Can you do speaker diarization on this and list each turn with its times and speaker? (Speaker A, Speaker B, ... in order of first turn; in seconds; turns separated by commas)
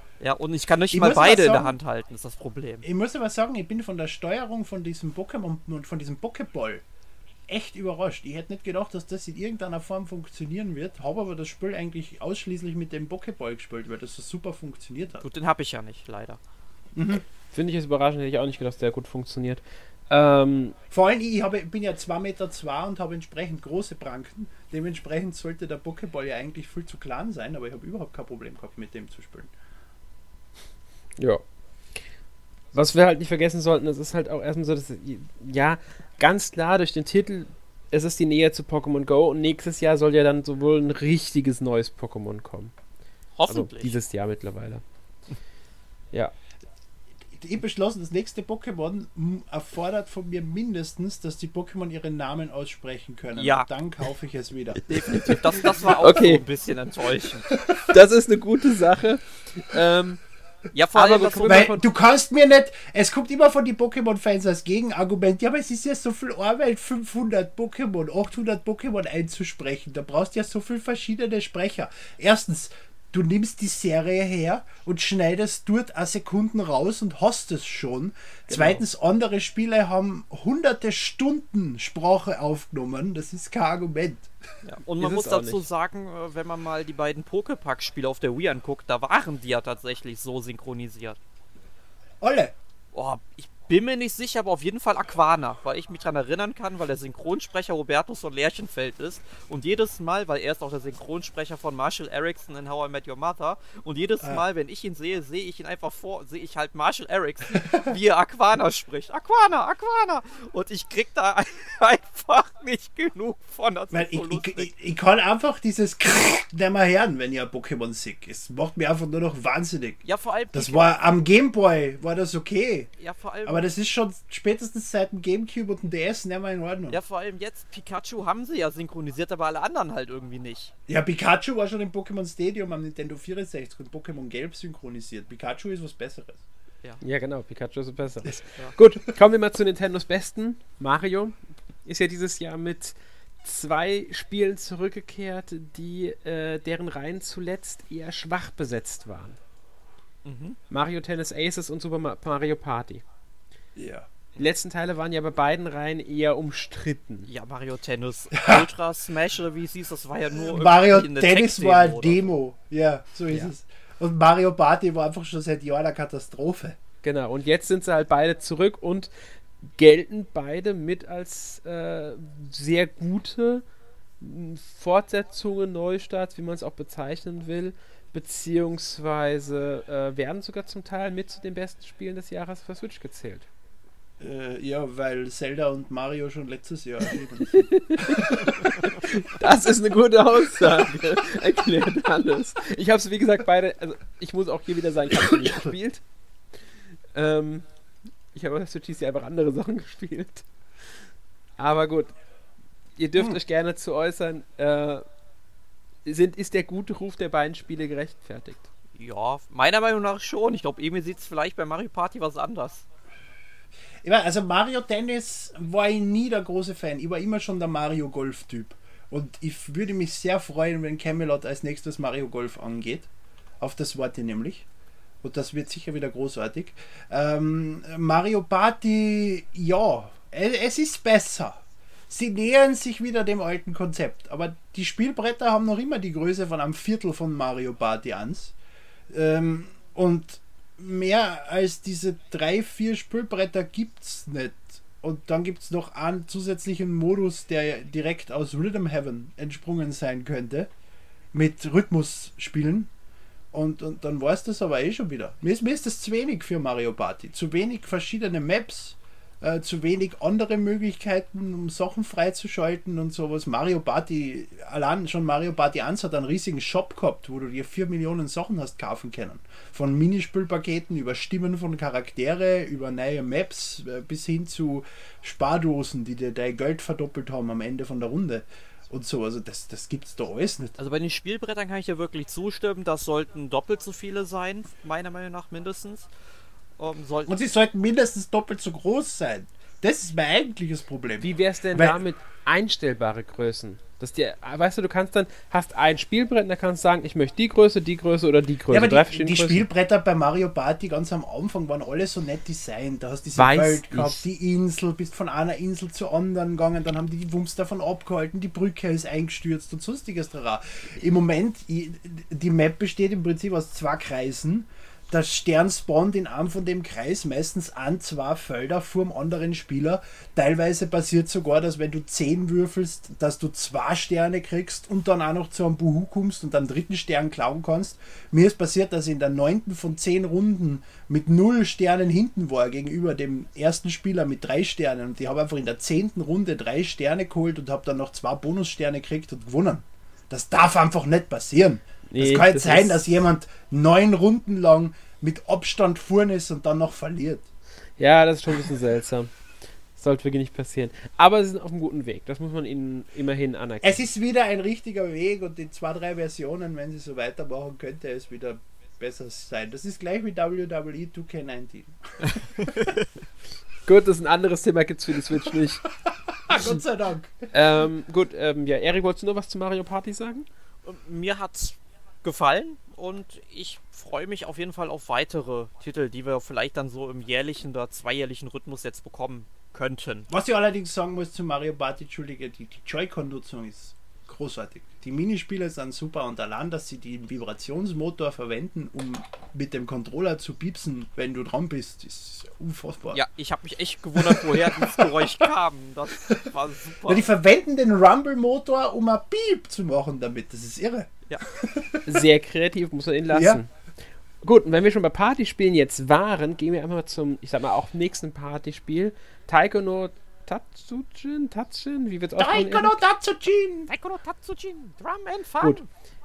Speaker A: 0.2-2.8, Speaker B: 0.9-1.8, Speaker B: 2.8-6.8, Speaker B: 7.5-15.3, Speaker A: 15.2-16.4, Speaker B: 16.9-17.2, Speaker C: 17.5-20.8, Speaker B: 20.9-29.5, Speaker C: 32.7-42.7, Speaker A: 43.4-44.0, Speaker C: 43.5-44.8, Speaker B: 47.4-55.7, Speaker A: 53.4-53.7, Speaker A: 54.9-57.5, Speaker C: 55.1-55.4, Speaker C: 56.0-56.4, Speaker B: 57.5-57.9, Speaker C: 57.9-60.2, Speaker A: 60.7-61.7, Speaker C: 60.9-61.8, Speaker B: 61.5-84.3, Speaker C: 78.5-78.8, Speaker A: 84.7-91.2, Speaker C: 85.0-85.6, Speaker B: 92.2-92.5, Speaker A: 92.9-114.7, Speaker B: 107.6-107.9, Speaker B: 113.9-122.9, Speaker A: 120.0-121.0, Speaker A: 123.0-123.7, Speaker B: 123.5-127.0, Speaker A: 126.9-130.7, Speaker B: 130.9-136.4, Speaker C: 137.0-149.4, Speaker A: 150.2-150.6, Speaker C: 150.7-153.0, Speaker B: 153.8-154.1, Speaker C: 154.4-157.3, Speaker A: 157.3-162.3, Speaker B: 158.3-158.7, Speaker B: 160.4-166.8, Speaker C: 167.0-169.1, Speaker C: 169.6-173.7, Speaker C: 174.2-183.5, Speaker B: 184.2-188.8, Speaker C: 187.5-196.0, Speaker B: 195.1-195.7, Speaker C: 197.1-197.7, Speaker C: 198.3-200.5, Speaker C: 201.6-202.1, Speaker C: 203.0-205.0, Speaker C: 206.1-208.7, Speaker A: 209.0-212.8, Speaker B: 214.0-224.7, Speaker B: 225.2-238.6, Speaker B: 239.1-250.7, Speaker B: 251.3-252.9, Speaker B: 253.5-280.8, Speaker A: 280.8-286.1, Speaker A: 286.8-287.4, Speaker B: 287.3-292.0, Speaker C: 291.2-299.7, Speaker B: 298.7-347.5, Speaker C: 303.4-304.2, Speaker C: 342.1-343.0, Speaker C: 348.0-349.3, Speaker C: 350.0-354.0, Speaker B: 353.8-362.7, Speaker A: 362.8-363.1, Speaker C: 363.9-365.9, Speaker B: 366.5-367.5, Speaker C: 366.5-366.8, Speaker C: 367.5-370.5, Speaker A: 370.9-380.3, Speaker B: 380.3-393.2, Speaker A: 393.1-397.3, Speaker B: 394.1-395.5, Speaker B: 397.1-402.0, Speaker C: 402.1-403.7, Speaker B: 403.3-403.6, Speaker C: 404.4-413.0, Speaker B: 412.4-413.9, Speaker A: 413.9-415.9